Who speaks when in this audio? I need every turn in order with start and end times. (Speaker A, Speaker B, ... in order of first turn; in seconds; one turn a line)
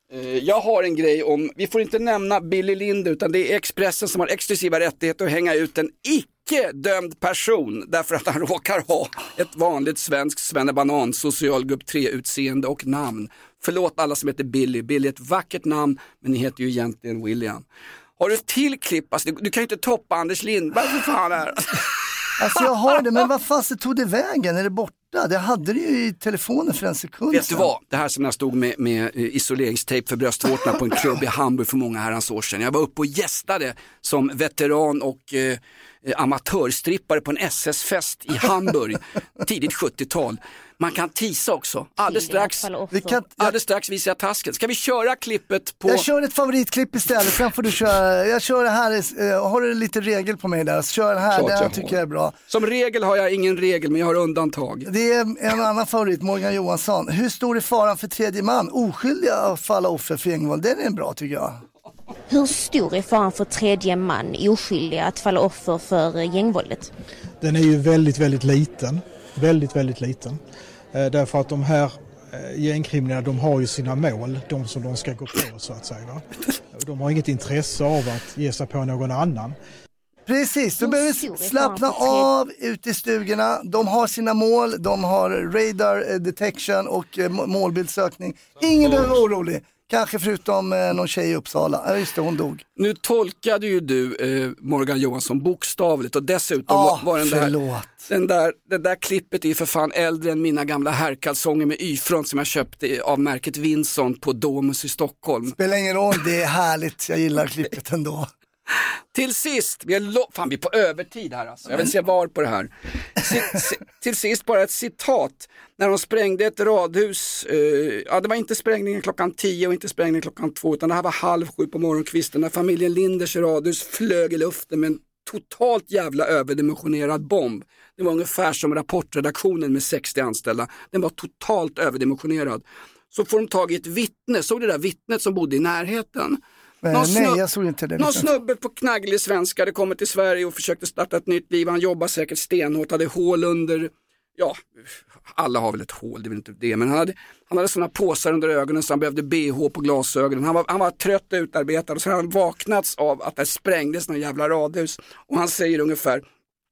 Speaker A: 0.1-17.6
Speaker A: 18.2-21.9
Speaker B: 22.4-27.7
Speaker A: 27.3-42.7
Speaker C: 42.0-43.2
Speaker B: 42.9-43.5
Speaker A: 43.3-46.1
Speaker B: 45.9-52.4
Speaker A: 51.3-54.9
Speaker B: 54.9-61.6
Speaker C: 62.3-66.9
Speaker D: 67.4-70.4
Speaker D: 70.9-79.6
Speaker B: 80.3-92.6
Speaker C: 80.8-82.3
Speaker A: 92.8-97.5
Speaker B: 96.7-98.1
Speaker A: 98.1-105.6
Speaker B: 105.6-108.3
Speaker A: 109.1-136.4
Speaker B: 136.8-138.3
Speaker A: 136.9-137.4
Speaker A: 138.0-156.2